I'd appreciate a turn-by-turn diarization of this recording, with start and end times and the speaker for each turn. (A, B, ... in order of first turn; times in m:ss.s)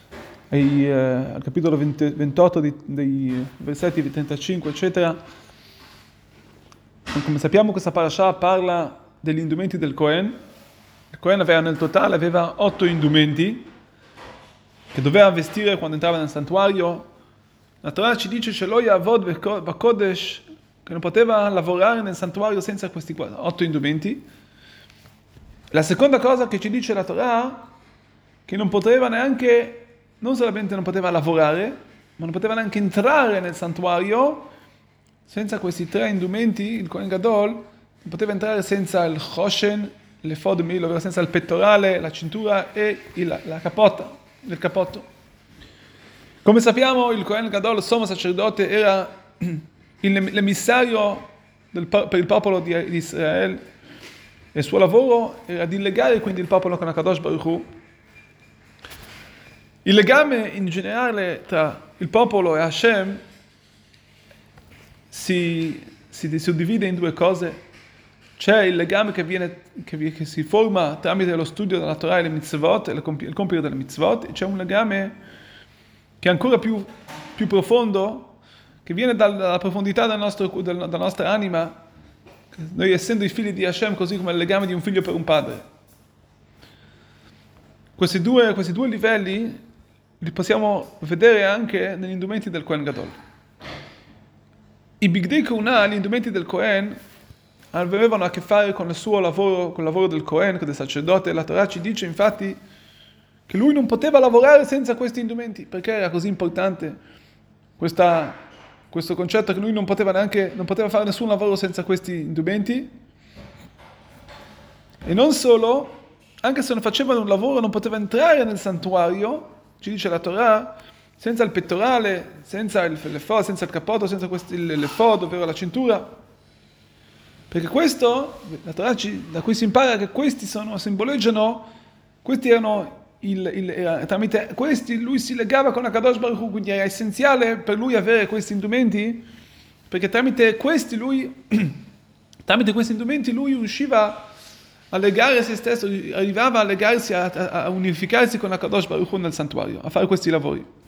0:00.5-0:05.2 A
0:07.1-0:10.3 A
0:11.1-0:13.7 A
0:14.9-0:17.0 A
0:17.8-0:24.2 A
0:25.7-0:27.6 A
0:28.5-0:34.5 A
0:35.3-0:45.0 A
0:46.4-0:53.6 A
0:54.6-0:57.6 A
0:59.8-1:03.2 A
1:05.1-1:07.6 A
1:08.4-1:15.1 A
1:16.2-1:18.3 A
1:18.8-1:21.8 A
1:22.5-1:25.6 A
1:28.0-1:29.6 A
1:30.2-1:33.2 A
1:35.0-1:37.0 A
1:37.7-1:42.6 A
1:43.5-1:47.0 A
1:47.8-1:48.4 A
1:48.9-1:52.9 A
1:55.0-2:06.1 A
2:07.5-2:11.6 A
2:12.2-2:19.2 A
2:19.9-2:21.8 A
2:22.4-2:24.2 A
2:24.9-2:30.7 A